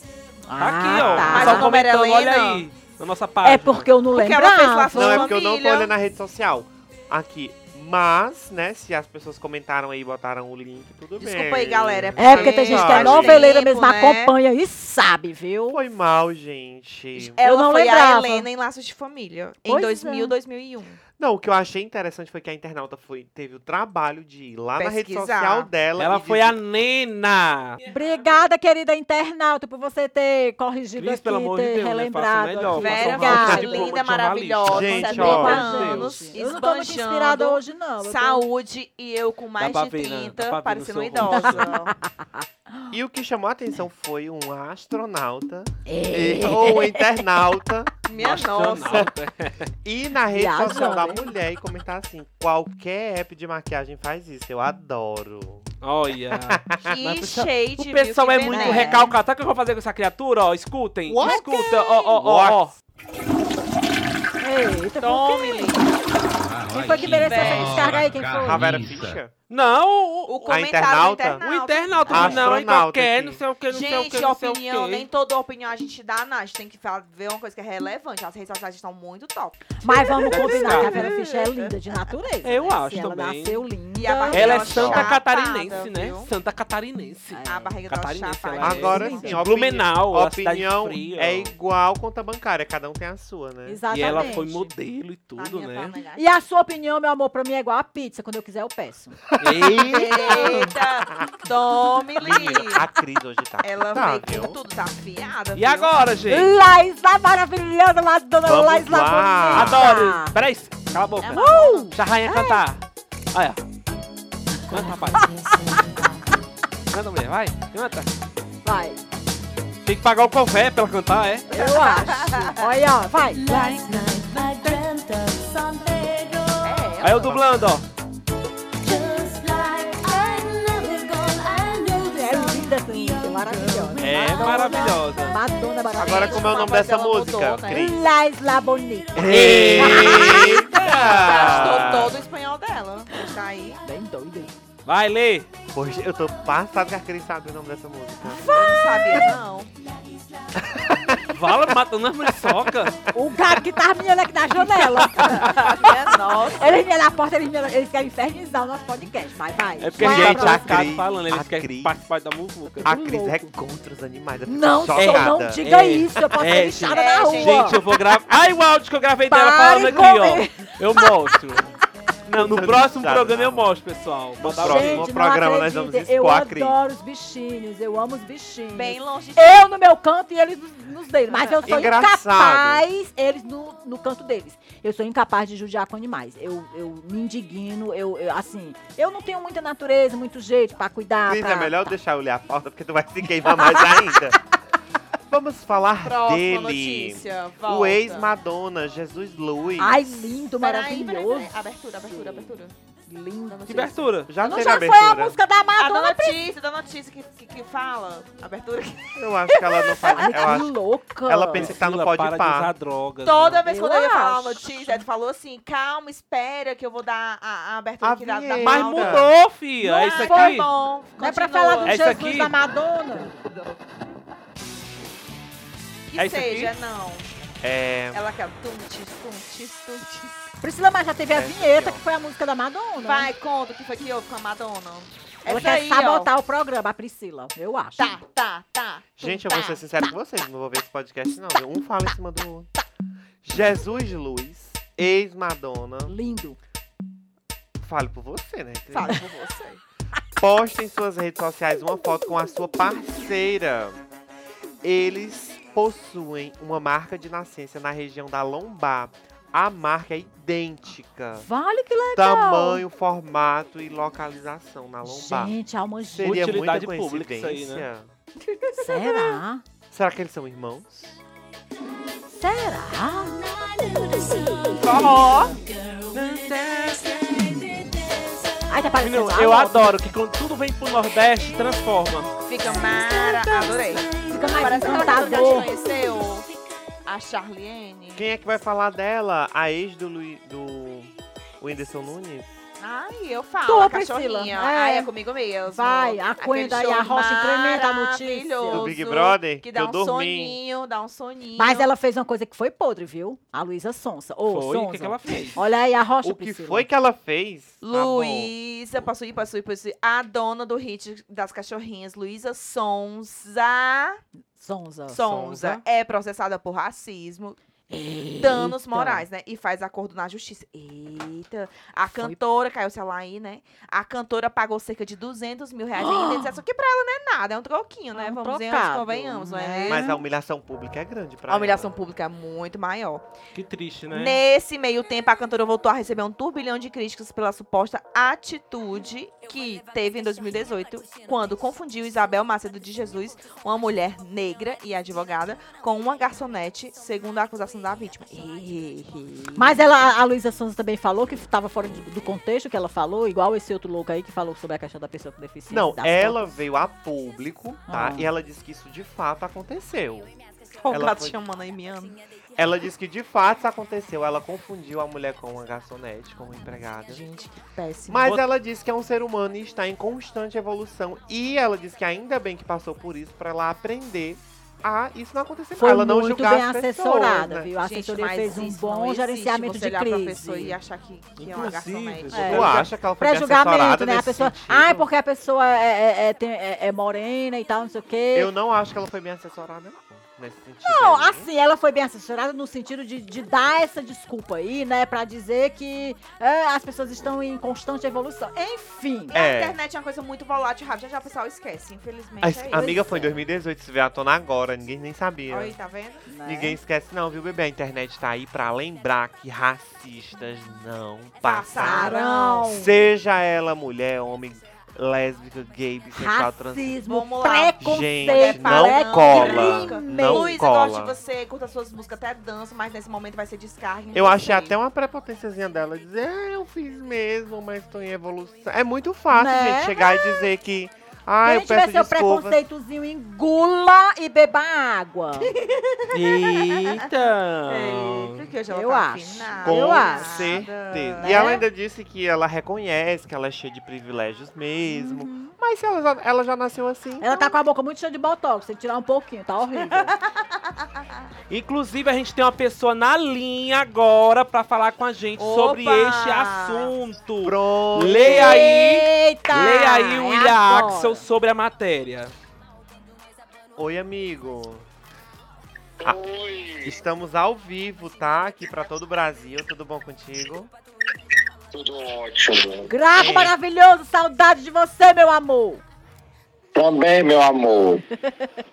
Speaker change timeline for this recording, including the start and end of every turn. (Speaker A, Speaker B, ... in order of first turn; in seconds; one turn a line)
Speaker A: 0.5-1.7
Speaker B: 0.6-3.9
Speaker C: 0.9-1.6
Speaker D: 1.3-2.6
Speaker A: 3.4-5.3
Speaker D: 4.1-5.9
Speaker C: 4.9-13.5
Speaker D: 11.2-14.3
Speaker A: 12.2-15.8
Speaker C: 15.7-17.4
Speaker D: 17.2-21.0
Speaker A: 17.4-18.5
Speaker A: 19.7-20.4
Speaker C: 21.2-26.6
Speaker D: 24.8-25.7
Speaker B: 26.0-27.8
Speaker A: 27.9-33.9
Speaker B: 31.0-36.3
Speaker D: 32.7-41.9
Speaker C: 34.7-35.7
Speaker A: 35.1-38.5
Speaker B: 39.6-41.8
Speaker A: 42.0-42.9
Speaker C: 42.9-47.9
Speaker A: 45.9-47.3
Speaker D: 48.1-49.1
Speaker B: 48.2-49.7
Speaker C: 49.8-55.7
Speaker A: 50.3-51.3
Speaker B: 55.8-62.7
Speaker C: 56.3-56.8
Speaker D: 56.9-59.0
Speaker A: 58.5-59.1
Speaker C: 61.1-62.8
Speaker A: 61.2-61.8
Speaker A: 64.4-65.7
Speaker D: 65.0-66.0
Speaker E: 66.2-69.2
Speaker A: 66.7-68.7
Speaker D: 67.0-67.9
Speaker C: 68.4-69.3
Speaker B: 69.5-70.6
Speaker D: 70.3-72.5
Speaker C: 70.5-71.4
Speaker B: 71.4-75.1
Speaker C: 72.1-73.4
Speaker D: 73.7-81.8
Speaker A: 79.8-84.9
Speaker B: 80.3-81.1
Speaker B: 82.4-83.6
Speaker D: 84.0-86.3
Speaker B: 84.3-91.5
Speaker C: 84.7-85.2
Speaker A: 87.3-87.8
Speaker D: 87.5-89.3
Speaker C: 88.6-93.8
Speaker A: 88.6-89.4
Speaker A: 93.7-94.7
Speaker B: 93.9-95.9
Speaker D: 95.4-96.2
Speaker A: 96.2-99.2
Speaker C: 99.3-100.7
Speaker B: 99.4-100.7
Speaker D: 99.8-102.9
Speaker C: 102.2-104.6
Speaker D: 103.6-106.0
Speaker B: 105.5-106.5
Speaker A: 106.3-110.3
Speaker C: 108.4-110.0
Speaker B: 109.5-112.8
Speaker D: 111.2-111.9
Speaker A: 111.3-112.6
Speaker B: 113.3-113.6
Speaker B: 114.7-115.2
Speaker F: 114.7-116.2
Speaker B: 116.9-118.1
Speaker A: 118.6-119.0
Speaker B: 119.8-121.5
Speaker A: 121.5-123.4
Speaker D: 121.5-122.7
Speaker F: 123.4-126.9
Speaker B: 123.5-124.8
Speaker D: 126.6-127.4
Speaker B: 127.0-127.9
Speaker F: 128.8-134.8
Speaker A: 132.1-136.5
Speaker B: 134.0-135.4
Speaker C: 134.0-134.6
Speaker D: 135.9-137.9
Speaker C: 136.0-138.0
Speaker A: 137.7-140.7
Speaker C: 139.2-142.2
Speaker B: 139.2-142.1
Speaker D: 140.4-143.8
Speaker A: 143.8-144.5
Speaker B: 144.9-145.5
Speaker C: 145.7-148.5
Speaker A: 148.2-149.2
Speaker D: 148.5-149.7
Speaker C: 150.6-153.1
Speaker B: 151.3-153.0
Speaker A: 153.1-155.6
Speaker B: 154.8-155.5
Speaker D: 155.3-156.8
Speaker A: 156.5-160.7
Speaker B: 159.8-163.0
Speaker C: 160.0-161.9
Speaker C: 162.8-165.6
Speaker A: 162.9-163.5
Speaker A: 164.5-167.8
Speaker B: 164.9-171.7
Speaker D: 166.9-167.9
Speaker A: 169.3-171.1
Speaker B: 172.3-175.1
Speaker C: 172.3-173.7
Speaker C: 174.4-176.8
Speaker A: 174.6-191.9
Speaker D: 178.7-179.7
Speaker D: 181.3-181.9
Speaker C: 181.7-182.8
Speaker C: 191.3-194.4
Speaker C: 195.3-200.0
Speaker D: 196.0-198.3
Speaker A: 199.8-201.5
Speaker D: 200.6-202.7
Speaker A: 202.1-206.4
Speaker B: 203.7-204.3
Speaker D: 203.7-204.8
Speaker C: 204.3-205.4
Speaker D: 205.8-209.1
Speaker C: 209.2-212.7
Speaker A: 209.5-211.8
Speaker B: 211.6-213.6
Speaker D: 213.2-222.0
Speaker A: 213.7-215.0
Speaker C: 218.0-219.3
Speaker B: 218.6-220.7
Speaker A: 219.9-220.7
Speaker A: 221.2-223.4
Speaker B: 221.8-222.5
Speaker D: 226.1-227.3
Speaker B: 226.2-226.7
Speaker C: 227.6-228.2
Speaker D: 228.1-230.4
Speaker A: 230.6-233.3
Speaker C: 231.3-232.0
Speaker D: 233.0-236.3
Speaker A: 235.5-238.1
Speaker D: 238.0-239.9
Speaker C: 239.2-242.7
Speaker C: 243.4-246.2
Speaker A: 246.1-246.6
Speaker C: 247.8-249.2
Speaker D: 248.9-249.8
Speaker C: 250.4-254.0
Speaker C: 254.8-261.5
Speaker A: 261.4-262.8
Speaker C: 262.1-265.6
Speaker A: 265.0-266.4
Speaker C: 266.1-268.1
Speaker B: 266.2-267.9
Speaker A: 268.8-269.6
Speaker C: 269.9-271.2
Speaker A: 272.3-273.4
Speaker F: 273.4-275.6
Speaker D: 274.8-275.6
Speaker A: 274.9-275.5
Speaker B: 276.1-277.6
Speaker A: 278.7-280.0
Speaker B: 279.0-282.3
Speaker D: 282.4-286.5
Speaker F: 282.7-286.1
Speaker A: 284.2-285.7
Speaker D: 287.1-288.3
Speaker C: 288.1-292.6
Speaker D: 292.8-301.9
Speaker A: 293.7-295.1
Speaker A: 295.7-298.9
Speaker C: 298.7-300.6
Speaker A: 301.6-306.9
Speaker B: 304.5-305.6
Speaker C: 306.2-308.5
Speaker D: 307.8-314.2
Speaker A: 314.6-315.6
Speaker D: 315.1-317.6
Speaker C: 315.2-315.8
Speaker A: 317.9-319.3
Speaker D: 318.4-330.1
Speaker A: 322.1-322.4
Speaker A: 326.0-326.6
Speaker A: 328.1-330.2
Speaker C: 329.9-332.0
Speaker D: 331.5-333.2
Speaker B: 333.6-334.4
Speaker D: 334.1-349.8
Speaker A: 349.6-356.5
Speaker C: 355.7-360.3
Speaker A: 357.9-358.3
Speaker D: 360.8-362.2
Speaker C: 360.9-361.4
Speaker C: 362.6-367.2
Speaker D: 367.1-368.3
Speaker C: 368.1-377.7
Speaker A: 375.7-380.8
Speaker D: 377.8-382.7
Speaker B: 381.4-382.9
Speaker A: 382.3-388.5
Speaker C: 382.4-385.1
Speaker C: 388.3-391.5
Speaker A: 390.8-399.4
Speaker D: 399.3-403.0
Speaker C: 399.3-399.8
Speaker C: 402.4-405.8
Speaker A: 402.7-403.4
Speaker D: 405.5-406.3
Speaker A: 406.3-406.8
Speaker C: 406.4-417.0
Speaker D: 411.4-412.9
Speaker A: 411.8-412.9
Speaker A: 416.1-420.6
Speaker D: 417.1-424.8
Speaker C: 417.8-421.2
Speaker C: 424.1-432.6
Speaker A: 429.3-430.2
Speaker A: 431.4-435.5
Speaker D: 435.5-437.1
Speaker B: 436.1-438.5
Speaker D: 437.7-441.6
Speaker A: 438.7-440.6
Speaker C: 439.6-447.5
Speaker A: 441.2-441.6
Speaker A: 444.9-445.5
Speaker A: 447.2-450.1
Speaker D: 449.9-451.1
Speaker B: 451.5-462.3
Speaker D: 455.4-456.9
Speaker C: 457.4-458.8
Speaker A: 458.2-461.3
Speaker C: 463.8-464.9
Speaker G: 466.0-467.0
Speaker C: 466.9-470.7
Speaker G: 471.7-473.5
Speaker A: 472.9-475.8
Speaker C: 473.1-473.5
Speaker G: 476.8-478.0